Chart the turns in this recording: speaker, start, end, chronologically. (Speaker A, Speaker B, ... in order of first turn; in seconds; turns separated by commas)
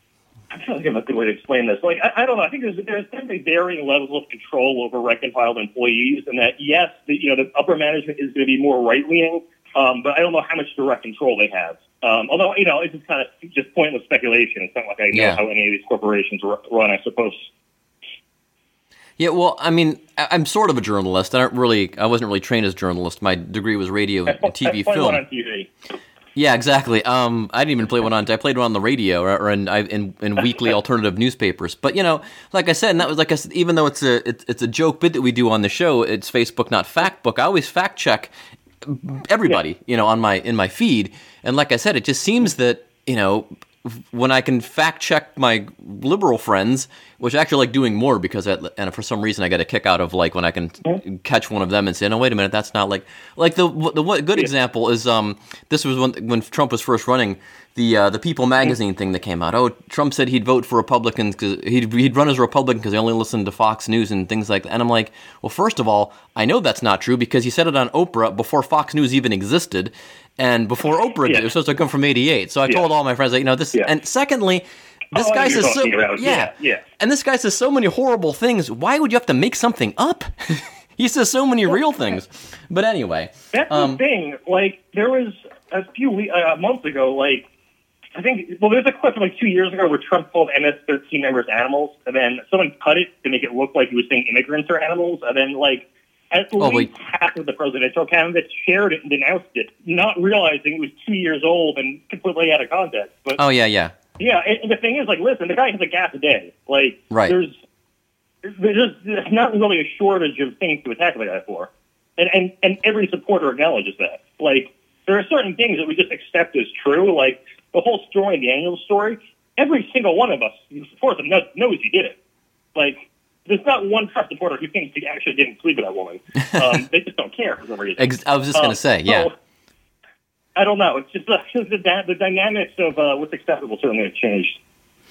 Speaker A: 0.5-17.5, Speaker B: 15.1-15.4, Speaker B: 19.2-25.2, Speaker A: 24.4-25.7, Speaker B: 26.4-38.3, Speaker B: 38.8-84.0, Speaker A: 75.1-76.8, Speaker A: 83.5-87.5, Speaker A: 88.1-103.4, Speaker B: 96.6-96.9, Speaker B: 103.4-103.9, Speaker A: 104.2-107.6, Speaker B: 107.1-107.4, Speaker A: 108.4-122.2, Speaker A: 122.8-129.3, Speaker B: 126.5-126.8, Speaker B: 128.0-129.3, Speaker A: 130.6-134.6